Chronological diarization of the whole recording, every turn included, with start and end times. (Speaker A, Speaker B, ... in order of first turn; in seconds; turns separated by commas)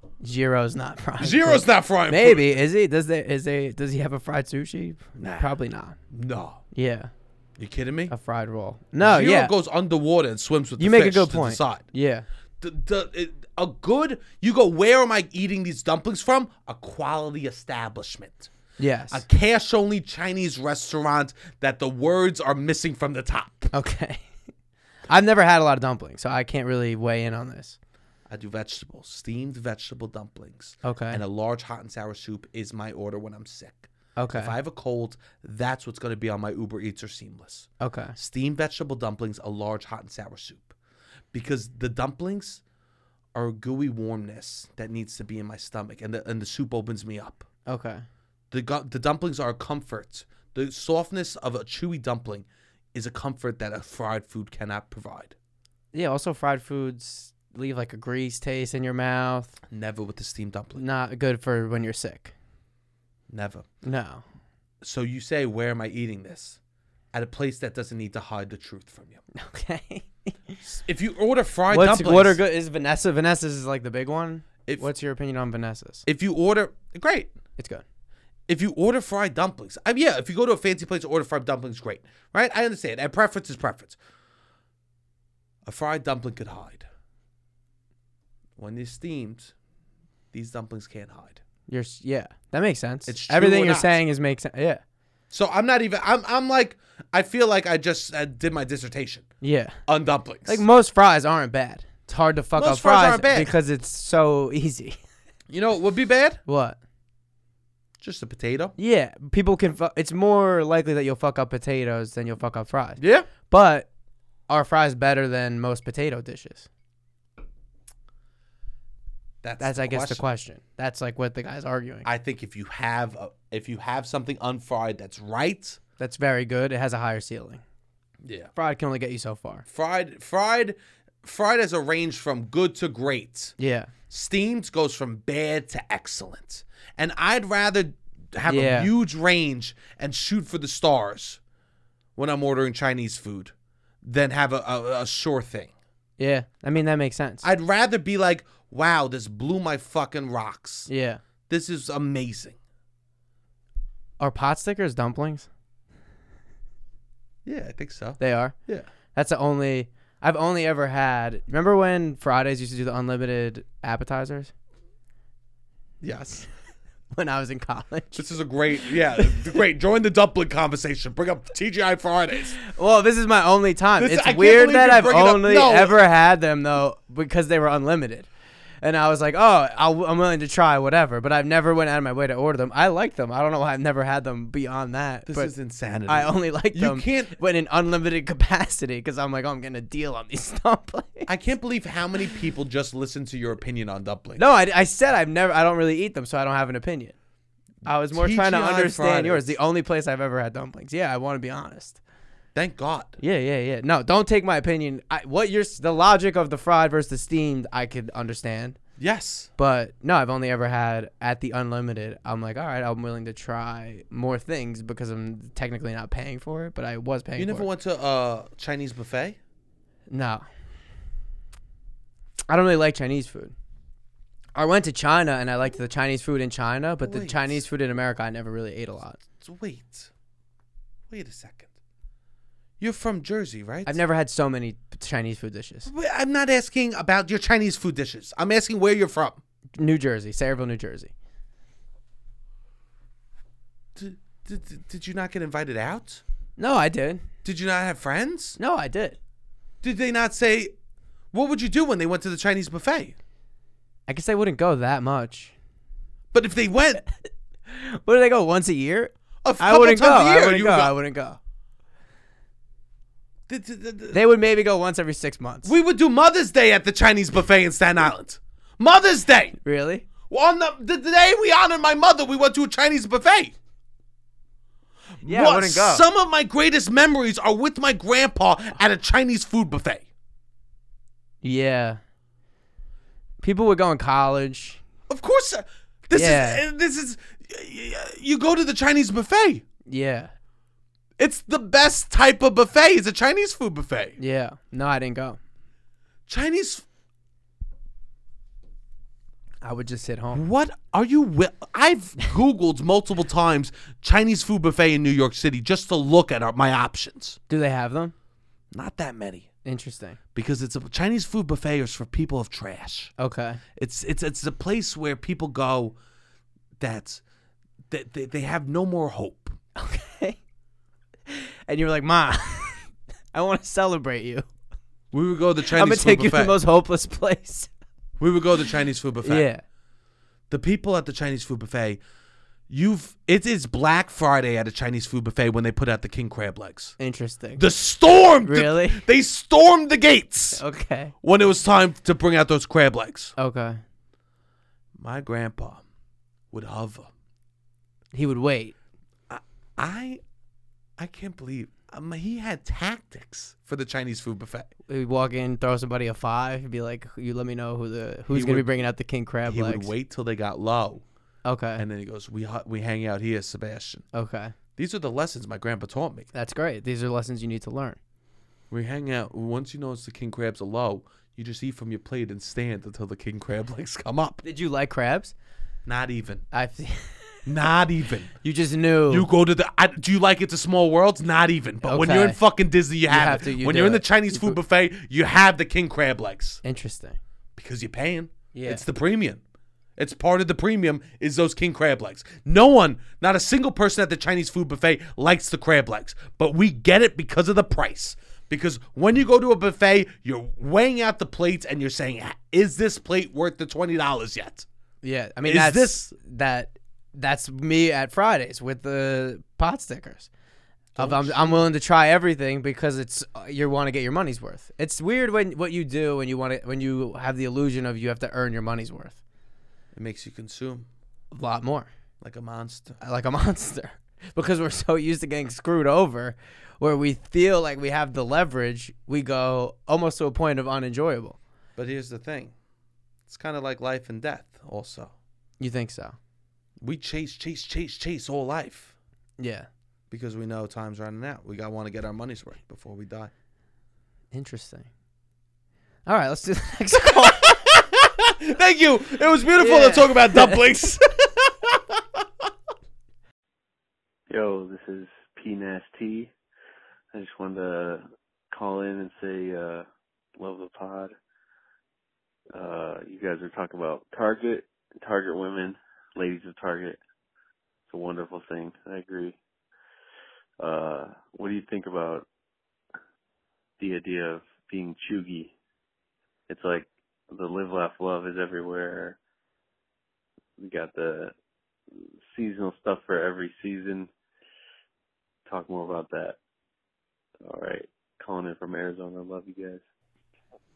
Speaker A: 0.2-6.0, Speaker B: 1.2-2.6, Speaker B: 5.1-5.5, Speaker B: 6.1-6.6, Speaker A: 6.7-7.1, Speaker B: 7.6-8.1, Speaker A: 8.1-9.5, Speaker B: 9.0-11.8, Speaker A: 10.8-12.2, Speaker B: 12.6-18.5, Speaker A: 18.8-19.2, Speaker B: 19.1-23.7, Speaker A: 23.7-24.2, Speaker A: 25.1-27.8, Speaker B: 28.3-40.7, Speaker A: 30.8-31.2, Speaker A: 34.2-34.5, Speaker A: 37.8-38.1, Speaker B: 41.3-42.6, Speaker B: 43.3-47.4, Speaker A: 47.7-48.0, Speaker B: 48.5-55.3, Speaker A: 55.9-59.6, Speaker B: 59.7-60.8, Speaker A: 60.8-62.3, Speaker B: 63.3-63.6, Speaker A: 63.8-64.2, Speaker B: 64.8-66.6, Speaker B: 67.1-69.2, Speaker A: 69.3-70.3, Speaker B: 70.6-72.4, Speaker A: 71.7-76.0, Speaker B: 76.0-77.3, Speaker A: 77.6-77.8, Speaker B: 78.5-84.0, Speaker B: 85.6-86.8, Speaker B: 88.6-89.5, Speaker B: 90.3-91.4, Speaker A: 91.7-94.8, Speaker B: 93.1-94.0, Speaker B: 95.3-99.2, Speaker A: 99.4-99.8, Speaker B: 99.9-100.6, Speaker A: 100.5-105.0, Speaker B: 102.5-103.5, Speaker B: 105.5-106.4, Speaker A: 106.5-106.8, Speaker B: 108.0-108.7, Speaker A: 108.8-113.9, Speaker B: 113.0-113.3, Speaker A: 114.5-116.7, Speaker B: 119.4-120.2, Speaker A: 119.6-122.1, Speaker B: 122.0-125.8, Speaker A: 126.0-127.6, Speaker B: 128.2-128.5, Speaker A: 128.6-129.6, Speaker B: 129.7-133.5, Speaker A: 133.6-133.9, Speaker B: 134.1-141.4, Speaker A: 138.5-138.9, Speaker B: 142.2-145.7, Speaker A: 146.2-147.4, Speaker B: 147.4-150.9, Speaker A: 150.9-151.2, Speaker B: 151.5-152.6, Speaker A: 154.2-155.5, Speaker B: 157.4-158.9, Speaker A: 158.2-158.5, Speaker A: 159.1-164.5, Speaker B: 166.0-166.4, Speaker A: 167.1-168.2, Speaker B: 168.1-172.6, Speaker A: 172.7-178.3, Speaker B: 174.0-176.0, Speaker A: 178.8-185.5, Speaker B: 185.2-187.3, Speaker A: 186.1-191.3, Speaker B: 191.3-194.4, Speaker A: 194.3-197.1, Speaker A: 197.8-202.0, Speaker B: 198.1-199.6, Speaker B: 202.5-203.2, Speaker A: 203.2-208.8, Speaker B: 209.0-209.5, Speaker A: 209.6-217.7, Speaker B: 217.4-219.4, Speaker A: 220.1-220.4, Speaker A: 222.5-223.5, Speaker A: 224.5-229.2, Speaker B: 227.0-227.7, Speaker B: 229.4-230.1, Speaker B: 231.1-231.7, Speaker B: 232.8-234.0, Speaker A: 233.8-235.9, Speaker B: 235.8-239.4, Speaker A: 239.8-241.1, Speaker B: 243.9-246.2, Speaker A: 246.6-247.2, Speaker B: 247.4-248.6, Speaker A: 248.6-249.2, Speaker B: 249.8-250.7, Speaker B: 251.3-253.2, Speaker A: 254.1-255.5, Speaker B: 256.3-257.0, Speaker A: 257.7-261.4, Speaker B: 259.4-260.9, Speaker B: 263.5-264.2, Speaker A: 264.1-265.7, Speaker B: 265.6-269.6, Speaker A: 269.6-270.1, Speaker B: 270.3-273.5, Speaker B: 275.2-280.0, Speaker A: 275.2-276.0, Speaker A: 281.4-282.0, Speaker A: 283.4-284.8, Speaker B: 285.1-289.6, Speaker A: 286.1-286.6, Speaker A: 289.9-290.3, Speaker B: 291.2-294.2, Speaker A: 294.2-295.4, Speaker B: 296.3-296.8, Speaker A: 299.6-300.4, Speaker B: 300.3-307.4, Speaker A: 307.5-308.1, Speaker B: 308.7-309.5, Speaker A: 309.6-310.2, Speaker B: 310.3-313.1, Speaker A: 313.2-313.6, Speaker B: 313.8-315.9, Speaker B: 316.8-317.2, Speaker B: 317.9-319.6, Speaker A: 319.8-320.4, Speaker A: 321.3-324.5, Speaker B: 325.1-326.6, Speaker A: 325.7-327.7, Speaker B: 328.2-329.5, Speaker A: 329.2-329.6, Speaker B: 330.5-332.0, Speaker B: 332.7-336.9, Speaker A: 337.0-337.6, Speaker B: 337.6-340.6, Speaker A: 338.4-339.0, Speaker A: 340.5-341.1, Speaker B: 341.2-343.3, Speaker A: 343.4-343.8, Speaker B: 344.9-345.8, Speaker B: 346.5-347.1, Speaker A: 348.1-348.7, Speaker B: 349.3-350.2, Speaker B: 351.0-354.7, Speaker A: 354.9-359.9, Speaker B: 358.3-358.7, Speaker B: 359.4-361.0, Speaker A: 361.4-361.8, Speaker B: 361.8-364.0, Speaker A: 364.1-364.5, Speaker B: 364.8-366.3, Speaker A: 366.3-368.0, Speaker B: 368.7-374.4, Speaker A: 374.4-375.3, Speaker B: 375.9-376.4, Speaker A: 376.5-377.4, Speaker B: 377.4-378.3, Speaker A: 378.4-379.3, Speaker B: 379.1-386.6, Speaker A: 381.8-382.4, Speaker A: 383.1-384.6, Speaker A: 386.6-387.2, Speaker B: 387.6-389.4, Speaker A: 388.5-388.8, Speaker B: 390.0-404.7, Speaker A: 405.0-410.3, Speaker B: 405.4-406.1, Speaker B: 410.9-411.6, Speaker A: 410.9-419.2, Speaker B: 419.9-420.9, Speaker A: 421.3-421.9, Speaker B: 422.2-423.0, Speaker A: 423.0-431.4, Speaker B: 431.8-432.5, Speaker B: 433.3-435.1, Speaker A: 435.6-436.1, Speaker B: 436.8-438.9, Speaker A: 439.4-439.7, Speaker B: 440.1-443.3, Speaker A: 444.3-444.9, Speaker A: 446.1-447.6, Speaker B: 447.0-452.2, Speaker A: 449.6-450.8, Speaker C: 454.3-456.3, Speaker C: 457.1-459.8, Speaker C: 460.4-461.1, Speaker C: 462.5-467.0, Speaker C: 467.9-469.4, Speaker C: 470.6-472.2, Speaker C: 473.8-475.5, Speaker C: 476.5-479.2, Speaker C: 480.6-481.3, Speaker C: 482.3-484.1, Speaker C: 485.4-486.4, Speaker C: 487.4-489.8